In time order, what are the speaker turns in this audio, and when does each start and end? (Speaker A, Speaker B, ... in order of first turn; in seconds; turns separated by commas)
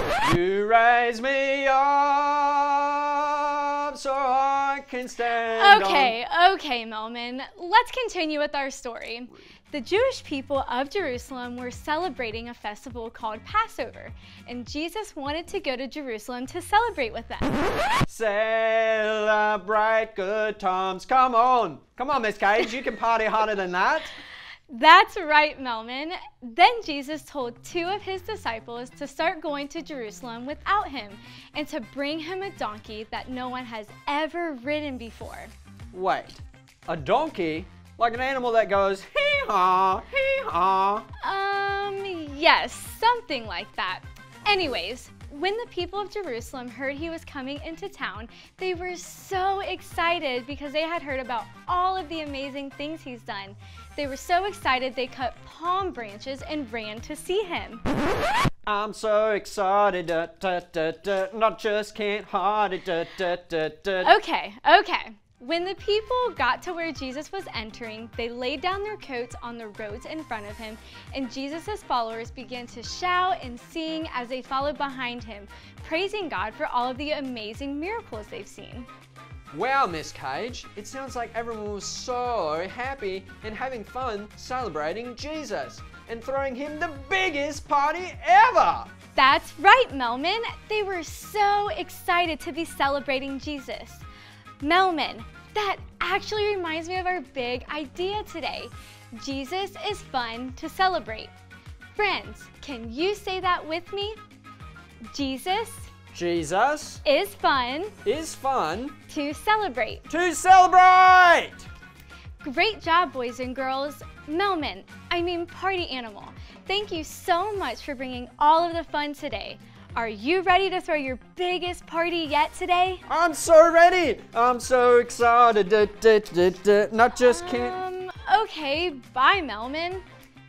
Speaker A: 0.2-6.1, Speaker B: 5.5-17.6, Speaker A: 18.1-24.1, Speaker B: 24.7-35.5, Speaker A: 35.9-41.1, Speaker B: 41.2-57.8, Speaker A: 58.6-64.2, Speaker B: 64.0-78.9, Speaker A: 79.5-88.9, Speaker B: 89.2-94.0, Speaker B: 94.6-101.3, Speaker B: 101.9-104.2, Speaker B: 105.1-105.9, Speaker A: 106.1-107.0, Speaker B: 107.0-107.9, Speaker A: 108.0-109.0, Speaker B: 109.1-110.0, Speaker A: 110.1-111.7, Speaker B: 112.4-123.0, Speaker A: 123.1-127.8, Speaker B: 127.2-130.0